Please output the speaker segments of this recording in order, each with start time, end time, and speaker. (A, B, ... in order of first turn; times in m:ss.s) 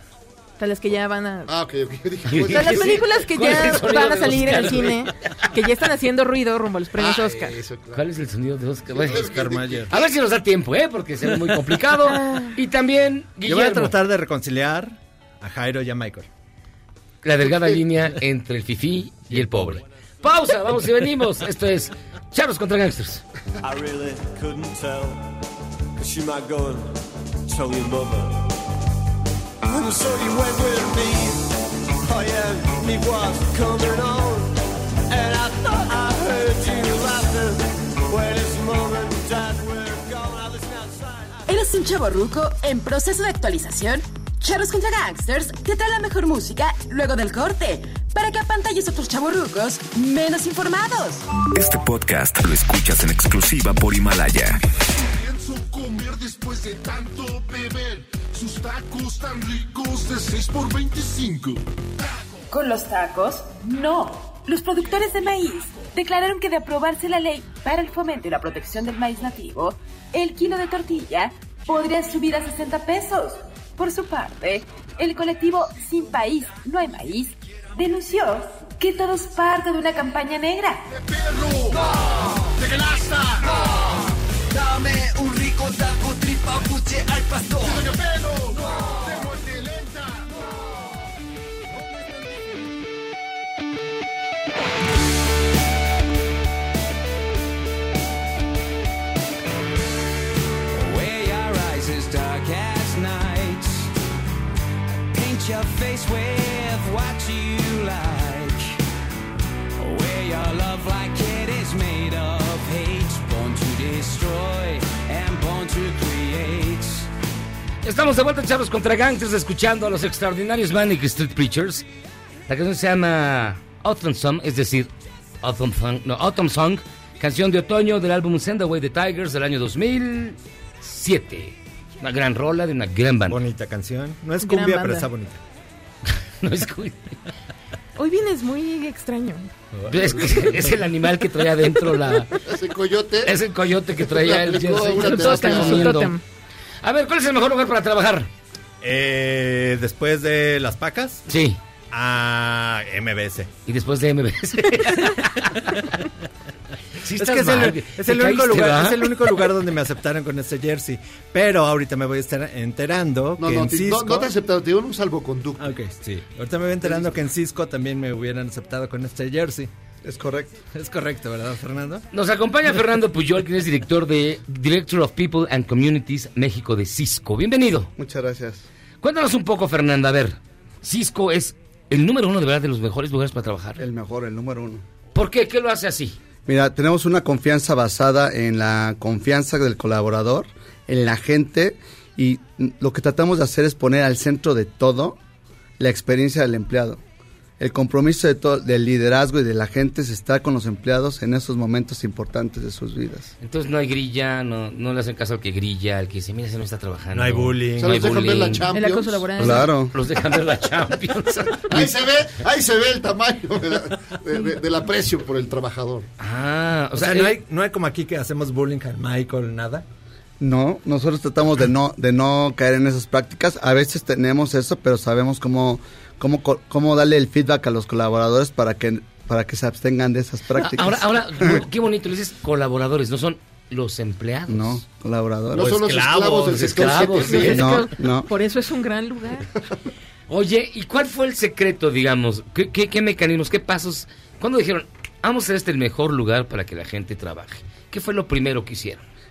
0:00.6-0:01.5 A
0:01.5-0:03.0 B
0:02.3-0:04.9 C
0:02.5-0:07.6 A
0:07.0-0:08.0 B
0:07.9-0:09.3 C
0:08.9-0:10.1 B
0:09.1-0:09.9 D
0:09.9-0:13.9 C
0:12.1-0:12.5 A
0:13.4-0:16.3 D
0:17.2-0:23.2 C
0:19.3-0:19.8 D
0:23.6-0:25.2 E
0:26.0-0:26.9 E
0:27.5-0:28.5 E
0:29.7-0:34.6 E
0:35.1-0:41.4 E
0:41.5-0:51.2 F
0:51.5-0:54.6 G
0:54.9-1:01.6 H
1:02.5-1:20.8 F
1:21.0-1:21.8 H
1:22.6-1:23.4 H
1:24.5-1:27.9 E
1:27.7-1:28.6 H
1:40.7-1:43.9 I
1:45.1-1:48.8 I
1:49.8-1:57.1 I
1:57.8-2:01.8 C
2:02.5-2:04.9 C
2:05.4-2:13.4 C
2:13.3-2:15.4 D
2:14.4-2:15.1 A
2:16.4-2:17.2 C
2:18.0-2:19.5 A
2:19.7-2:20.8 D
2:19.9-2:22.4 C
2:22.4-2:23.4 B
2:23.2-2:26.1 C
2:24.0-2:26.0 B
2:25.0-2:26.2 A
2:26.8-2:28.3 C
2:28.8-2:31.3 D
2:31.3-2:31.6 C
2:31.9-2:33.5 D
2:33.7-2:35.3 C
2:37.0-2:44.3 D
2:37.0-2:39.1 C
2:43.4-2:45.7 B
2:45.6-2:49.7 D
2:46.8-2:47.1 B
2:50.0-2:50.6 J
2:50.7-2:52.0 D
2:52.1-2:57.9 C
2:58.0-2:58.6 J
2:59.0-3:03.8 C
3:03.8-3:04.8 J
3:05.1-3:06.2 C
3:06.5-3:15.2 J
3:15.8-3:17.0 J
3:17.6-3:23.3 J
3:23.4-3:28.6 C
3:27.1-3:28.5 D
3:27.8-3:29.6 B
3:28.7-3:29.7 A
3:29.4-3:29.9 J
3:29.9-3:31.9 C
3:31.5-3:36.1 B
3:36.2-3:37.3 C
3:37.0-3:39.8 D
3:40.4-3:51.6 J
3:50.6-3:54.8 C
3:54.5-3:55.8 J
3:55.5-3:57.8 B
3:55.5-3:57.3 D
3:56.5-3:57.6 C
3:57.3-3:59.5 A
3:57.4-3:58.3 J
4:00.3-4:09.0 C